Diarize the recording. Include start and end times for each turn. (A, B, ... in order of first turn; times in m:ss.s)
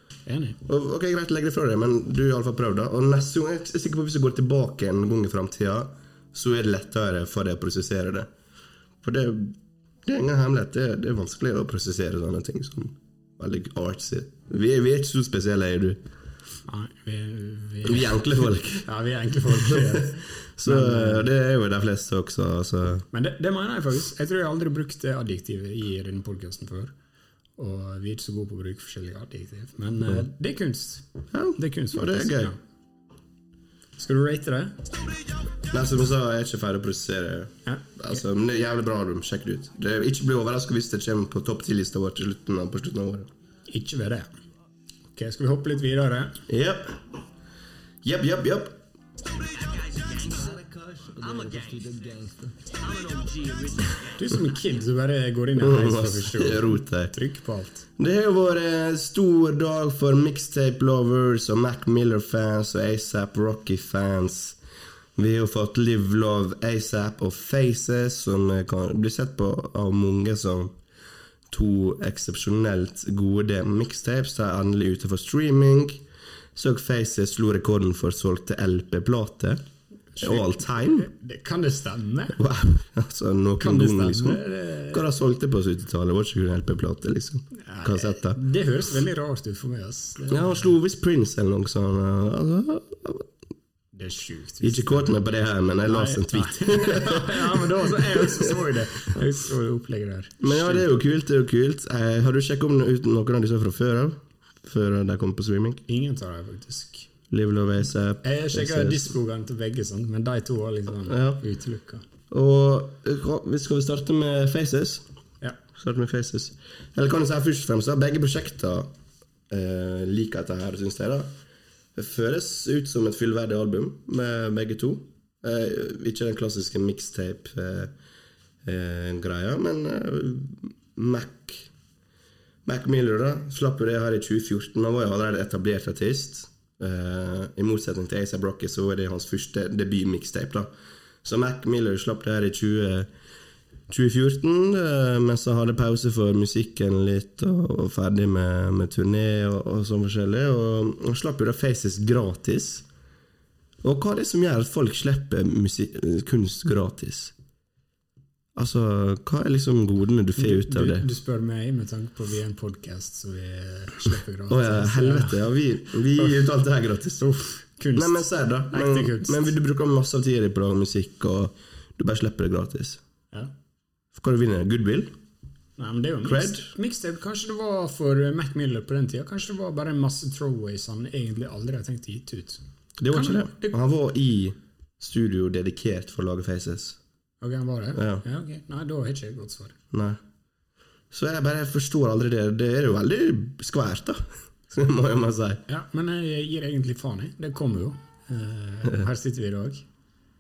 0:00.3-0:00.6 A
0:00.6-0:08.3 B
0:09.0-0:16.0 B
0:16.7-0:21.3 A
0:17.8-0:18.9 B
0:19.5-0:23.1 B
0:23.1-0:26.9 A
0:27.6-0:32.6 A
0:31.3-0:32.5 B
0:34.0-0:34.8 A
0:35.7-0:43.3 B
0:37.7-0:38.2 A
0:43.7-0:44.3 A
0:45.1-0:46.4 A
0:46.5-0:47.0 B
0:48.0-0:48.8 B
0:49.2-0:54.2 C
0:54.1-0:57.8 A
0:55.6-0:57.2 B
0:58.0-1:04.6 B
1:05.2-1:10.8 B
1:11.5-1:16.0 B
1:16.6-1:19.6 B
1:20.2-1:22.4 A
1:20.2-1:21.1 B
1:22.4-1:28.4 B
1:23.6-1:25.1 A
1:27.6-1:30.7 A
1:30.3-1:33.3 B
1:33.9-1:35.2 A
1:34.6-1:39.1 B
1:35.9-1:40.9 A
1:40.4-1:45.8 B
1:45.9-1:47.1 A
1:47.3-1:49.1 B
1:48.2-1:52.0 A
1:51.1-1:51.4 B
1:52.3-1:55.0 B
1:55.8-1:58.9 B
1:59.5-2:01.3 B
2:02.0-2:07.9 B
2:08.6-2:11.7 B
2:12.6-2:20.7 B
2:21.2-2:23.1 B
2:23.9-2:32.9 B
2:33.8-2:37.3 B
2:38.6-2:41.1 B
2:40.4-2:45.4 A
2:44.5-2:47.2 B
2:46.2-2:46.5 A
2:47.2-2:49.5 A
2:48.0-2:53.0 B
2:54.2-2:55.2 B
2:55.8-3:03.8 A
2:56.2-2:56.7 B
3:03.0-3:07.0 B
3:07.4-3:09.8 A
3:08.0-3:08.2 B
3:09.9-3:10.2 B
3:11.1-3:15.6 B
3:15.7-3:19.9 A